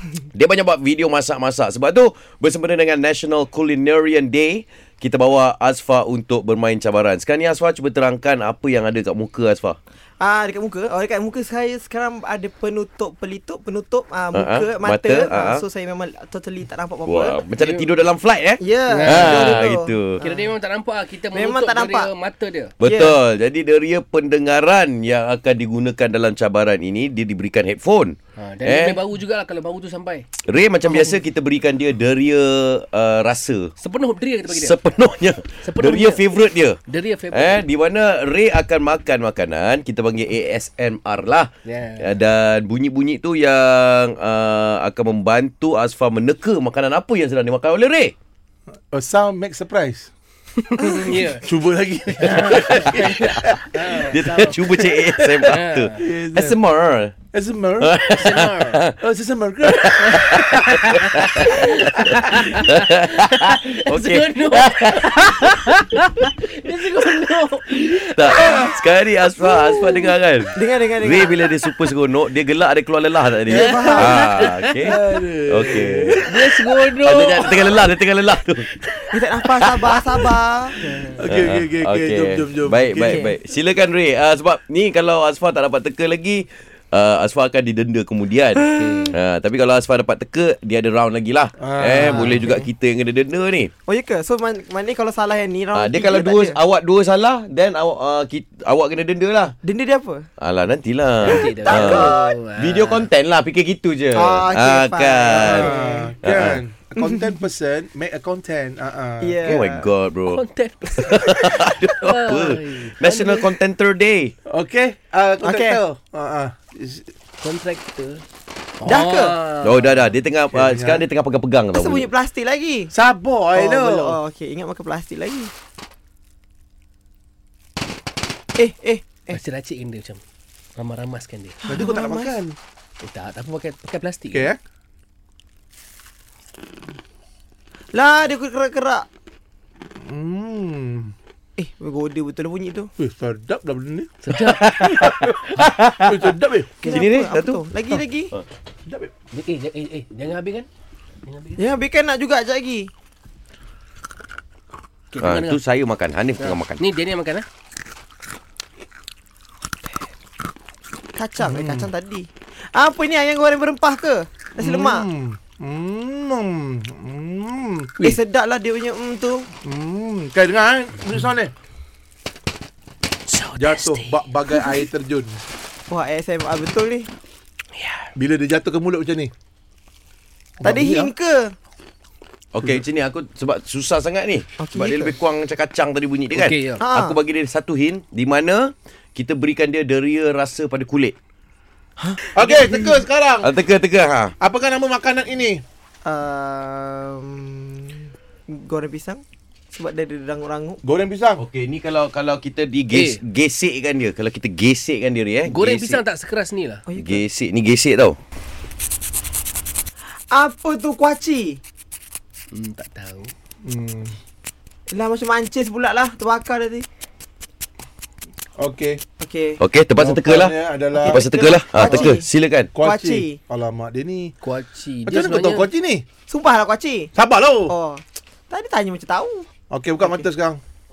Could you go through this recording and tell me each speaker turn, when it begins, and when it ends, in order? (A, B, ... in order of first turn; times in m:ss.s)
0:00.3-0:09.8 A
0:10.2-0:17.4 B
0:14.3-0:15.6 A
0:17.0-0:20.2 A
0:17.6-0:17.9 C
0:18.6-0:20.5 B
0:18.9-0:19.4 C
0:20.2-0:22.7 C
0:21.3-0:22.1 B
0:22.8-0:29.0 A
0:22.8-0:23.2 B
0:28.4-0:30.2 C
0:30.4-0:33.7 A
0:30.8-0:31.2 C
0:33.8-0:34.8 C
0:34.5-0:36.8 A
0:35.6-0:36.2 C
0:36.9-0:37.6 C
0:37.3-0:48.1 A
0:41.6-0:42.1 C
0:48.9-0:50.1 D
0:50.6-0:51.4 C
0:51.4-0:53.9 D
0:52.1-0:54.6 C
0:52.4-0:57.1 A
0:55.0-0:56.6 D
0:55.4-0:56.0 C
0:57.3-0:58.0 D
0:57.8-0:58.9 A
0:58.1-0:58.8 C
0:59.0-1:00.6 D
0:59.7-1:05.4 A
1:00.1-1:08.7 C
1:08.0-1:15.0 A
1:09.5-1:10.0 C
1:10.6-1:11.4 B
1:13.5-1:14.4 B
1:13.5-1:15.0 C
1:14.9-1:16.5 D
1:15.5-1:16.2 A
1:16.2-1:17.6 C
1:17.0-1:18.7 A
1:19.1-1:21.2 B
1:21.1-1:23.3 D
1:21.2-1:33.7 A
1:23.0-1:23.3 B
1:28.6-1:29.1 B
1:28.7-1:29.1 C
1:31.6-1:32.5 D
1:32.0-1:32.3 C
1:32.1-1:32.7 B
1:33.9-1:36.6 B
1:35.7-1:39.5 A
1:39.6-1:40.3 B
1:40.4-1:45.7 A
1:41.2-1:43.1 C
1:41.3-1:42.3 B
1:44.1-1:46.1 B
1:45.4-1:49.4 D
1:46.2-1:46.6 A
1:47.0-1:47.3 B
1:49.2-1:49.9 B
1:49.4-1:50.4 A
1:50.3-1:53.6 C
1:51.0-1:54.3 A
1:54.4-1:57.1 D
1:55.4-1:55.8 B
1:57.4-1:58.2 C
1:58.8-2:00.1 C
1:58.8-1:59.4 B
1:59.6-2:02.1 A
2:00.5-2:01.0 D
2:01.7-2:02.9 B
2:02.9-2:04.2 D
2:03.5-2:05.5 B
2:08.6-2:09.4 B
2:09.3-2:10.2 C
2:10.7-2:11.6 C
2:11.6-2:12.4 B
2:11.7-2:12.6 D
2:13.0-2:14.5 C
2:14.3-2:14.6 D
2:17.9-2:19.0 B
2:20.0-2:21.1 D
2:21.6-2:22.9 B
2:23.0-2:24.2 D
2:24.3-2:27.6 A
2:24.3-2:24.6 C
2:24.8-2:25.5 D
2:26.0-2:26.7 D
2:26.8-2:28.3 B
2:28.8-2:29.1 D
2:29.3-2:30.7 C
2:31.2-2:31.6 C
2:31.6-2:32.9 B
2:35.1-2:35.6 C
2:35.2-2:36.8 A
2:36.4-2:37.4 C
2:41.2-2:45.0 B
2:41.4-2:41.9 D
2:44.6-2:48.0 D
2:48.0-2:49.5 B
2:49.6-2:51.5 D
2:53.3-2:54.2 C
2:53.6-2:55.4 D
2:55.9-2:57.1 B
2:57.8-2:58.1 C
2:58.2-2:59.3 D
3:00.6-3:01.1 D
3:00.6-3:01.5 B
3:02.5-3:11.1 A
3:04.6-3:05.1 B
3:06.3-3:06.8 C
3:06.8-3:07.2 B
3:12.0-3:13.0 B
3:12.2-3:13.5 D
3:13.4-3:14.3 A
3:14.4-3:15.6 D
3:16.0-3:19.2 B
3:19.7-3:20.8 B
3:20.8-3:21.4 D
3:21.4-3:26.0 A
3:22.9-3:23.2 C
3:25.4-3:26.8 C
3:26.8-3:27.2 B
3:27.0-3:28.2 A
3:30.3-3:31.6 B
3:32.5-3:33.3 C
3:33.6-3:34.2 D
3:34.9-3:36.8 B
3:38.6-3:39.0 D
3:39.2-3:39.6 B
3:39.6-3:42.7 A
3:40.0-3:41.2 D
3:40.9-3:42.3 B
3:41.8-3:42.2 D
3:42.7-3:44.3 D
3:42.8-3:43.4 B
3:44.4-3:45.7 C
3:45.0-3:46.0 D
3:46.3-3:47.1 B
3:47.1-3:47.7 D
3:47.7-3:49.4 B
3:49.7-3:50.6 D
3:50.0-3:50.2 B